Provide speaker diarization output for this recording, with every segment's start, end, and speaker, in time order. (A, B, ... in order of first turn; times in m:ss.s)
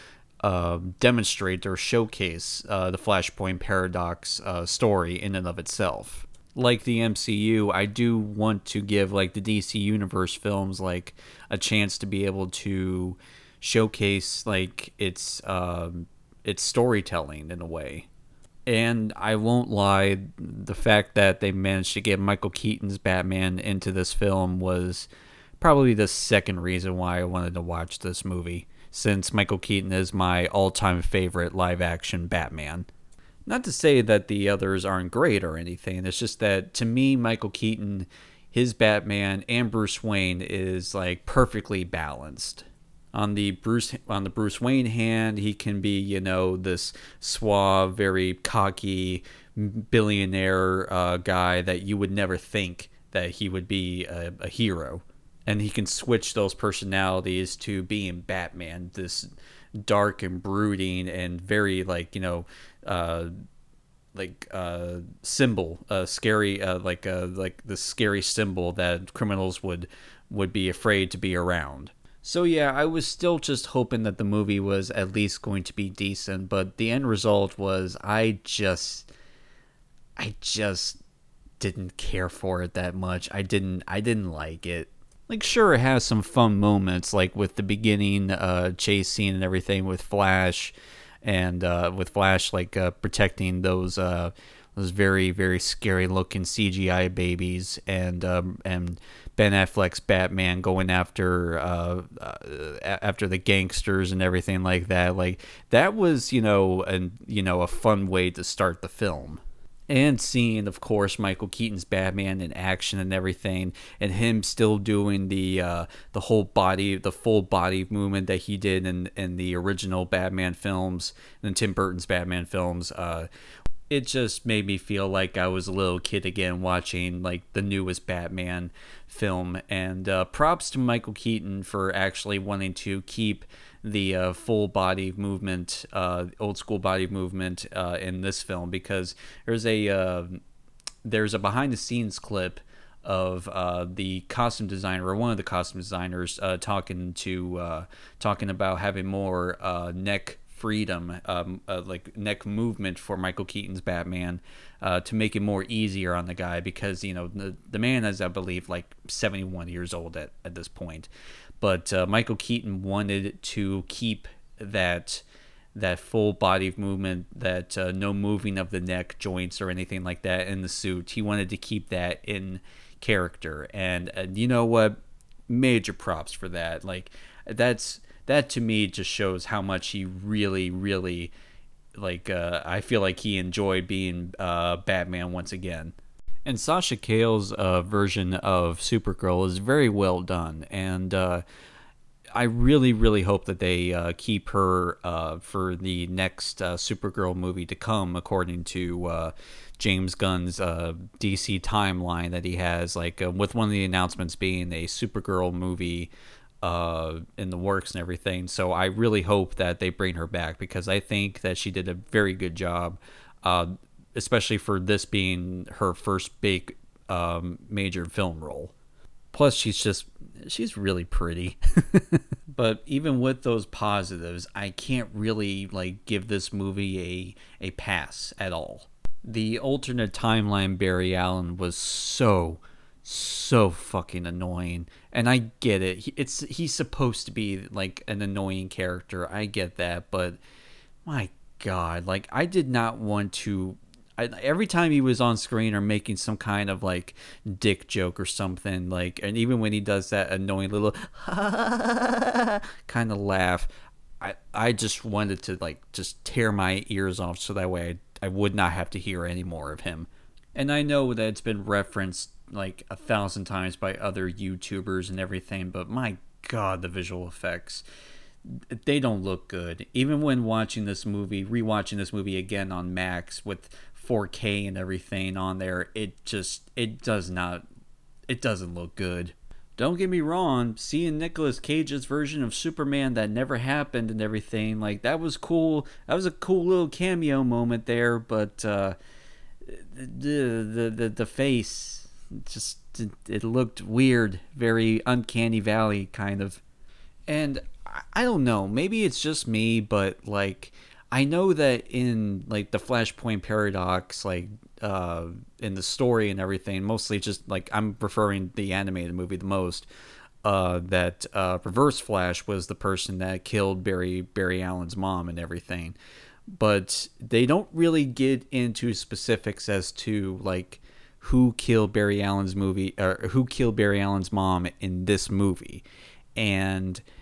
0:00.4-0:18.0 A
0:18.7-0:25.1 A
0:25.6-0:32.9 A
0:33.4-1:03.3 A
1:04.1-1:19.1 A
1:20.2-1:21.0 A
1:21.6-2:03.3 A
2:03.9-2:20.4 A
2:21.0-2:41.1 A
2:41.6-2:55.0 A
2:55.5-3:01.3 A
3:01.9-3:11.4 A
3:12.3-3:26.1 A
3:26.6-3:38.7 A
3:39.3-4:00.4 A
4:01.0-4:13.7 A
4:14.2-4:27.8 A
4:28.5-4:37.6 A
4:38.3-4:49.0 A
4:49.6-4:56.6 A
4:57.3-5:09.9 A
5:10.4-5:16.0 A
5:16.5-5:25.8 A
5:26.4-5:27.0 A